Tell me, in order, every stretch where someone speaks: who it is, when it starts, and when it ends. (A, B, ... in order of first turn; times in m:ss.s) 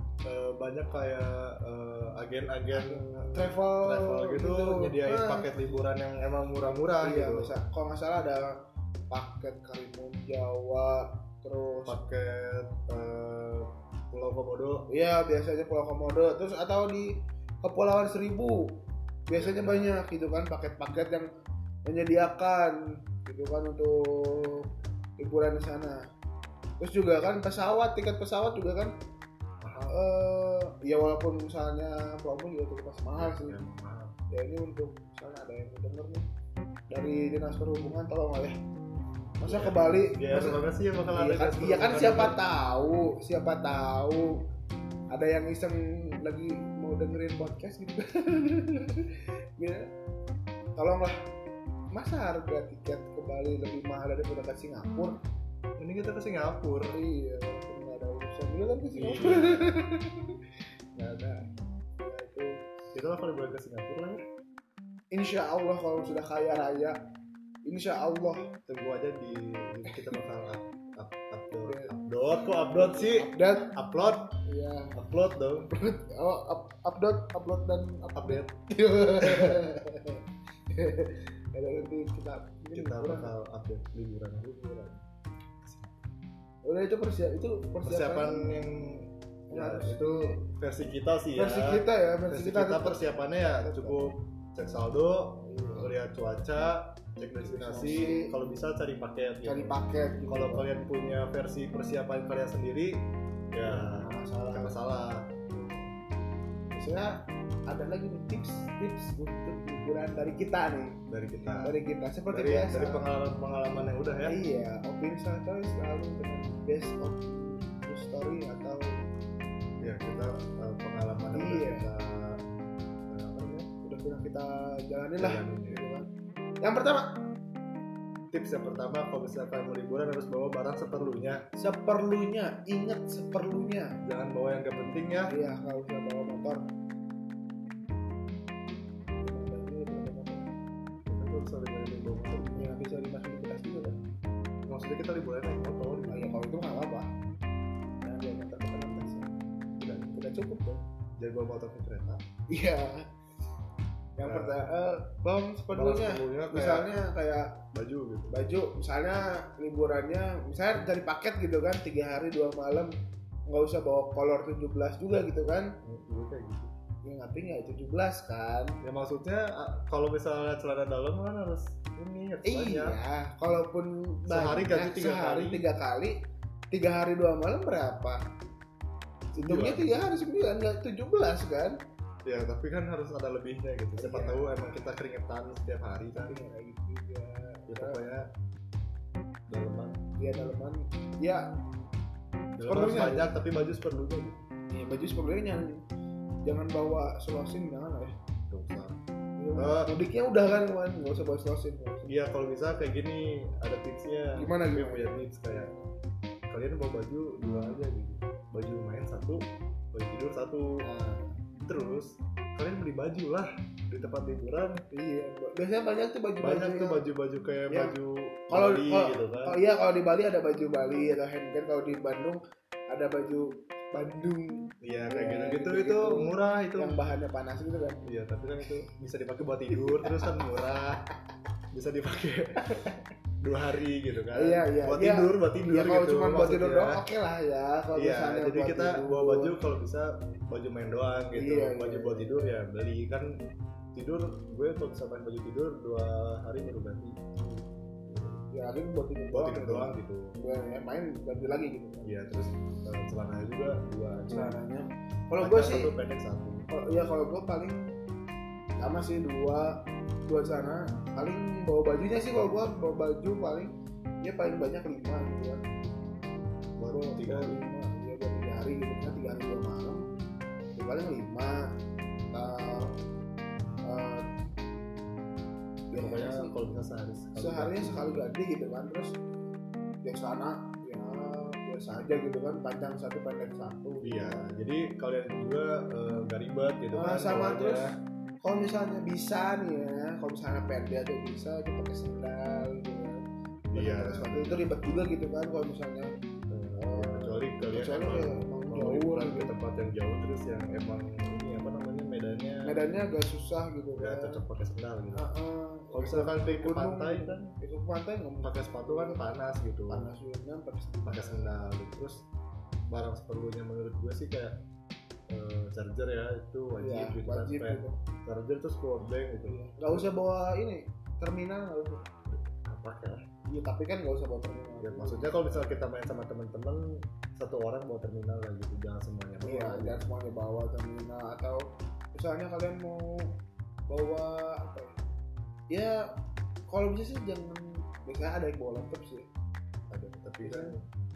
0:00.2-0:07.5 A
0:02.7-0:05.4 B
0:07.0-0:08.5 B
0:09.1-0:11.9 B
0:11.8-0:14.8 A
0:14.9-0:18.7 B
0:19.3-0:21.3 B
0:19.3-0:20.0 A
0:21.8-0:24.7 B
0:25.2-0:26.0 B
0:26.8-0:28.9 B
0:29.6-0:29.9 A
0:29.9-0:33.6 B
0:33.2-0:34.1 A
0:34.3-0:36.2 B
0:36.9-0:38.5 B
0:39.4-0:44.4 B
0:39.4-0:42.4 A
0:45.1-0:49.9 B
0:50.8-0:51.2 B
0:51.9-0:55.2 B
0:55.8-0:56.9 A
0:56.9-1:00.4 B
0:58.9-0:59.8 A
1:01.0-1:01.4 B
1:02.0-1:02.6 B
1:02.9-1:04.2 A
1:05.1-1:07.0 B
1:07.6-1:08.5 B
1:08.7-1:14.3 A
1:11.6-1:11.9 B
1:12.7-1:15.0 B
1:14.9-1:15.7 A
1:15.7-1:23.3 B
1:18.2-1:18.5 A
1:19.2-1:19.6 A
1:22.7-1:25.0 A
1:25.6-1:26.0 A
1:26.6-1:28.5 B
1:27.8-1:45.3 A
1:29.5-1:30.3 B
1:31.3-1:34.0 B
1:35.4-1:35.9 B
1:37.4-1:38.3 B
1:39.4-1:40.7 B
1:43.6-1:44.8 B
1:45.5-1:45.9 B
1:46.7-1:47.2 B
1:47.7-1:51.0 B
1:51.1-1:51.7 A
1:51.6-1:53.0 B
1:52.3-1:54.4 A
1:54.3-1:59.0 B
1:59.8-2:02.4 A
2:01.3-2:01.9 B
2:03.1-2:03.7 A
2:03.8-2:06.1 B
2:05.2-2:05.8 A
2:06.6-2:07.0 B
2:08.3-2:11.4 A
2:11.6-2:14.0 B
2:14.0-2:15.3 A
2:15.3-2:16.7 B
2:19.2-2:20.5 B
2:21.1-2:22.8 A
2:22.4-2:24.0 B
2:24.7-2:26.2 A
2:26.1-2:27.1 B
2:28.0-2:29.3 B
2:29.8-2:30.8 B
2:31.2-2:32.2 A
2:32.5-2:33.0 B
2:34.2-2:37.5 B
2:34.2-2:34.6 A
2:35.7-2:36.9 A
2:37.7-2:38.3 A
2:38.3-2:42.9 B
2:43.5-2:45.7 B
2:45.8-2:46.7 A
2:47.0-2:48.7 B
2:48.8-2:53.0 A
2:52.4-2:56.1 B
2:54.3-2:55.6 A
2:56.7-2:58.2 B
2:59.3-2:59.9 A
2:59.4-3:01.8 B
3:02.2-3:06.3 A
3:04.0-3:04.4 B
3:06.2-3:08.0 B
3:07.7-3:08.2 A
3:09.5-3:10.0 A
3:10.2-3:11.5 B
3:12.6-3:14.4 A
3:12.6-3:13.3 B
3:14.7-3:15.7 B
3:16.4-3:18.1 B
3:18.5-3:19.0 A
3:19.4-3:22.1 B
3:19.6-3:19.9 A
3:22.0-3:25.7 A
3:24.4-3:25.8 B
3:26.5-3:30.8 A
3:30.8-3:31.4 B
3:31.6-3:34.8 A
3:34.9-3:37.0 B
3:36.4-3:39.6 A
3:37.7-3:37.9 B
3:38.5-3:48.0 B
3:44.8-3:47.0 A
3:48.0-3:51.0 A
3:49.7-3:50.3 B
3:51.7-3:52.8 A
3:52.7-3:53.0 B
3:53.4-3:57.0 A
3:54.3-3:59.5 B
3:57.9-4:03.3 A
4:01.4-4:02.5 B
4:03.9-4:07.3 A
4:08.1-4:08.4 A
4:08.5-4:12.3 B
4:09.3-4:10.3 A
4:12.0-4:14.6 A
4:14.3-4:15.9 B
4:15.4-4:16.7 A
4:16.7-4:17.8 B
4:18.8-4:23.7 B
4:24.2-4:25.6 B
4:26.8-4:27.6 A
4:26.9-4:30.0 B
4:30.8-4:31.7 B
4:32.3-4:33.0 B
4:33.8-4:34.2 B
4:35.9-4:36.5 B
4:35.9-4:38.3 A
4:37.4-4:39.2 B
4:40.0-4:44.5 B
4:44.0-4:47.9 A
4:46.9-4:53.2 B
4:53.7-4:54.7 A
4:53.7-4:56.1 B
4:56.5-5:02.8 A
4:56.8-4:59.5 B
5:02.6-5:04.4 B
5:04.0-5:05.3 A
5:05.1-5:09.2 B
5:05.9-5:07.5 A
5:08.4-5:10.1 A
5:09.9-5:11.6 B
5:11.0-5:12.2 A
5:12.9-5:14.6 A
5:15.3-5:20.1 A
5:16.8-5:18.0 B
5:19.4-5:22.0 B
5:22.3-5:23.2 A
5:23.5-5:25.8 B
5:24.8-5:26.8 A
5:27.3-5:30.0 A
5:29.4-5:31.6 B
5:32.1-5:33.3 B
5:33.9-5:34.9 B
5:35.7-5:36.0 B
5:36.7-5:39.2 B
5:39.9-5:40.8 A
5:40.4-5:40.7 B